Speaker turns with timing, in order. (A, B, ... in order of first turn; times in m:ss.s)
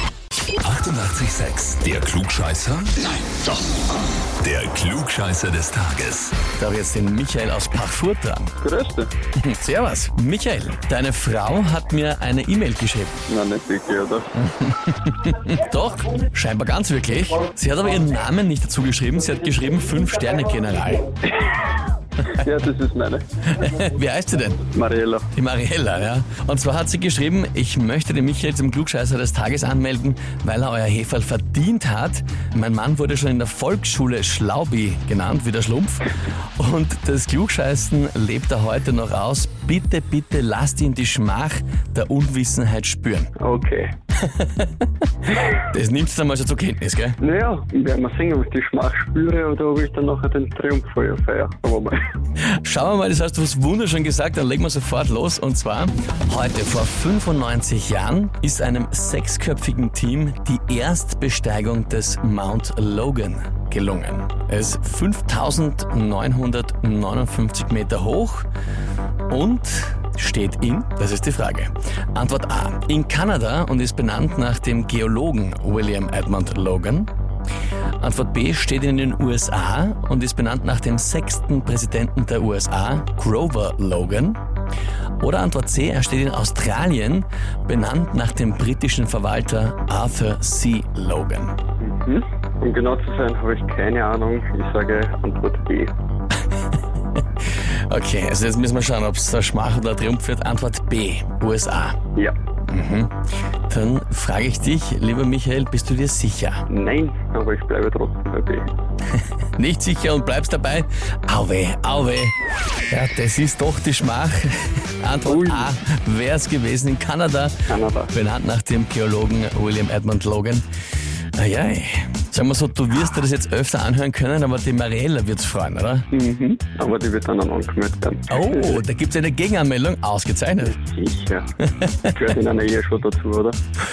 0:00.6-0:03.1 A
0:04.4-0:06.4 A
0:06.6-0:08.6 B
0:08.6-0:09.1 C
0:09.4-0:13.2 B
0:13.3-0:14.4 C
0:14.4-0:21.2 B
0:22.2-0:23.2 C
0:23.5-0:24.7 B
0:24.7-0:25.3 C
0:25.3-0:43.3 B
0:43.4-0:43.9 C
0:44.2-0:44.9 B
0:45.4-0:47.2 B
0:47.2-0:52.0 C
0:52.6-1:08.5 B
1:09.3-1:17.1 B
1:18.0-1:24.4 B
1:25.2-1:31.6 B
1:31.8-1:35.9 C
1:37.9-1:42.0 B
1:42.7-1:43.2 B
1:43.7-1:46.7 B
1:46.7-1:48.7 C
1:49.6-1:52.4 B
1:52.9-1:57.6 B
1:55.3-1:55.7 C
1:57.7-1:58.1 C
1:58.1-2:00.6 B
2:01.4-2:06.1 B
2:06.1-2:08.8 C
2:08.3-2:10.8 B
2:10.6-2:11.5 C
2:11.6-2:12.1 B
2:12.1-2:13.6 C